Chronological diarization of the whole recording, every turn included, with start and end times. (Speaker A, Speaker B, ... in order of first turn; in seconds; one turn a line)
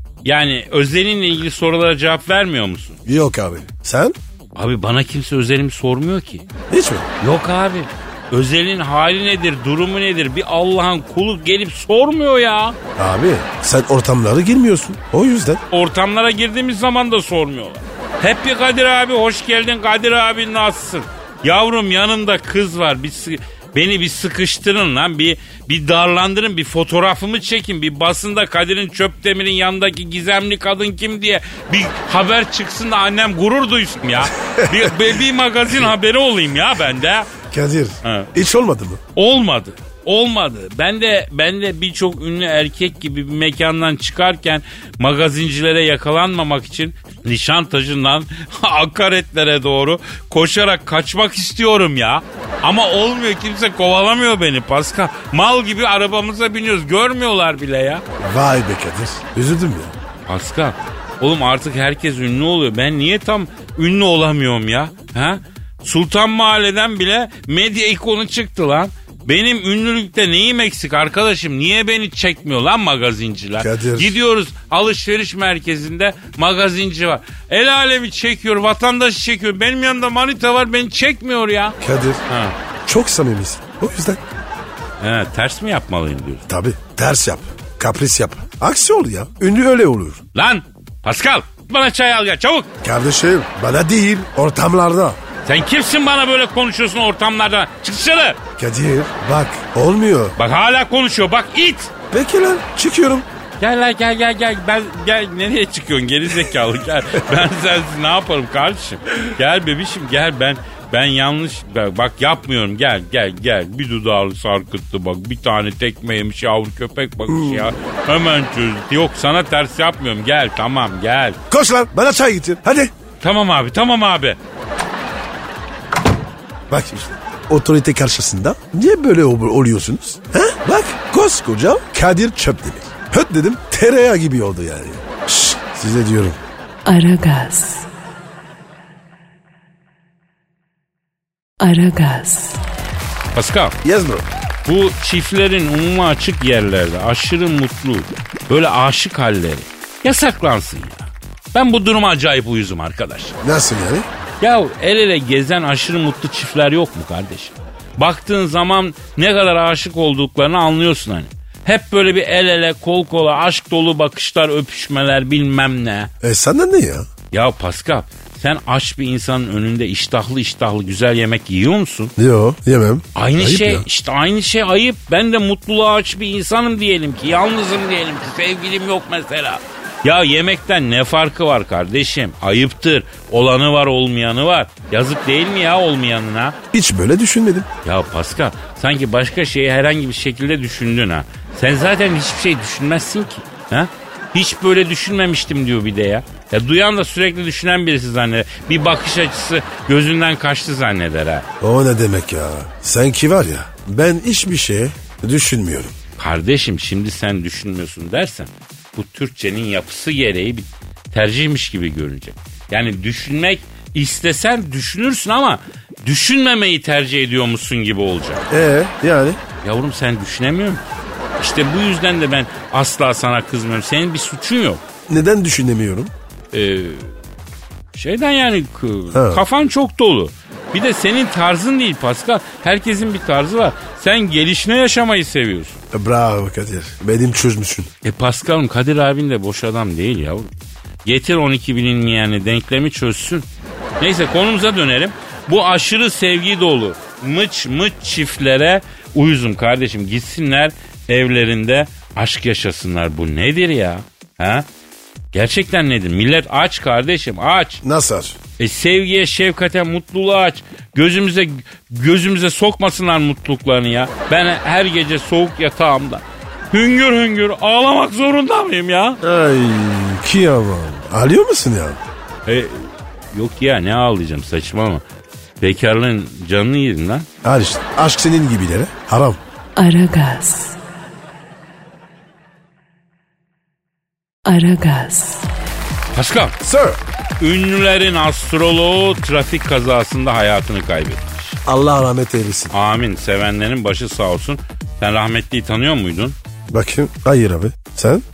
Speaker A: 0.2-3.0
Speaker B: 3.1-4.2
Speaker A: 4.5-6.5
Speaker B: 6.7-7.1
Speaker A: 7.2-12.8
Speaker B: 13.0-15.6
Speaker A: 15.7-37.3
Speaker B: 37.4-39.0
Speaker A: 38.0-38.3
Speaker A: 39.1-58.0
Speaker B: 58.2-59.9
Speaker A: 60.3-82.6
Speaker B: 73.6-74.2
Speaker B: 81.8-82.2
Speaker B: 82.8-84.2
Speaker A: 85.0-86.5
Speaker B: 86.5-90.2
Speaker A: 90.3-92.7
Speaker B: 92.8-95.2
Speaker A: 95.5-98.4
Speaker B: 98.6-100.4
Speaker A: 100.4-101.9
Speaker B: 102.1-103.3
Speaker A: 103.6-121.4
Speaker B: 117.3-117.7
Speaker B: 121.5-122.9
Speaker A: 123.2-124.4
Speaker B: 126.7-136.4
Speaker C: 136.8-137.9
Speaker C: 141.6-142.6
Speaker A: 143.3-143.8
Speaker B: 143.8-144.3
Speaker A: 144.7-153.4
Speaker B: 153.4-154.1
Speaker A: 154.4-166.1
Speaker B: 166.2-167.1
Speaker A: 167.3-172.1
Speaker B: 172.2-173.8
Speaker A: 173.2-186.6
Speaker B: 186.7-187.7
Speaker A: 187.8-201.5
Speaker B: 201.6-206.0
Speaker A: 206.2-218.4
Speaker B: 218.5-219.4
Speaker A: 219.6-220.8
Speaker A: 221.4-224.8
Speaker B: 225.1-226.1
Speaker A: 226.5-227.1
Speaker A: 227.9-235.8
Speaker B: 229.1-229.4
Speaker B: 235.9-237.9
Speaker A: 238.0-240.5
Speaker A: 241.1-243.5
Speaker A: 244.0-254.7
Speaker A: 255.3-257.8
Speaker B: 257.8-258.4
Speaker A: 258.6-269.2
Speaker B: 269.2-272.0
Speaker A: 272.5-275.0
Speaker A: 275.6-277.3
Speaker B: 277.4-279.4
Speaker C: 279.8-280.8
Speaker C: 284.4-285.5
Speaker A: 286.1-286.6
Speaker B: 286.6-287.0
Speaker A: 287.4-291.6
Speaker B: 291.6-292.7
Speaker A: 292.7-296.4
Speaker B: 296.7-298.2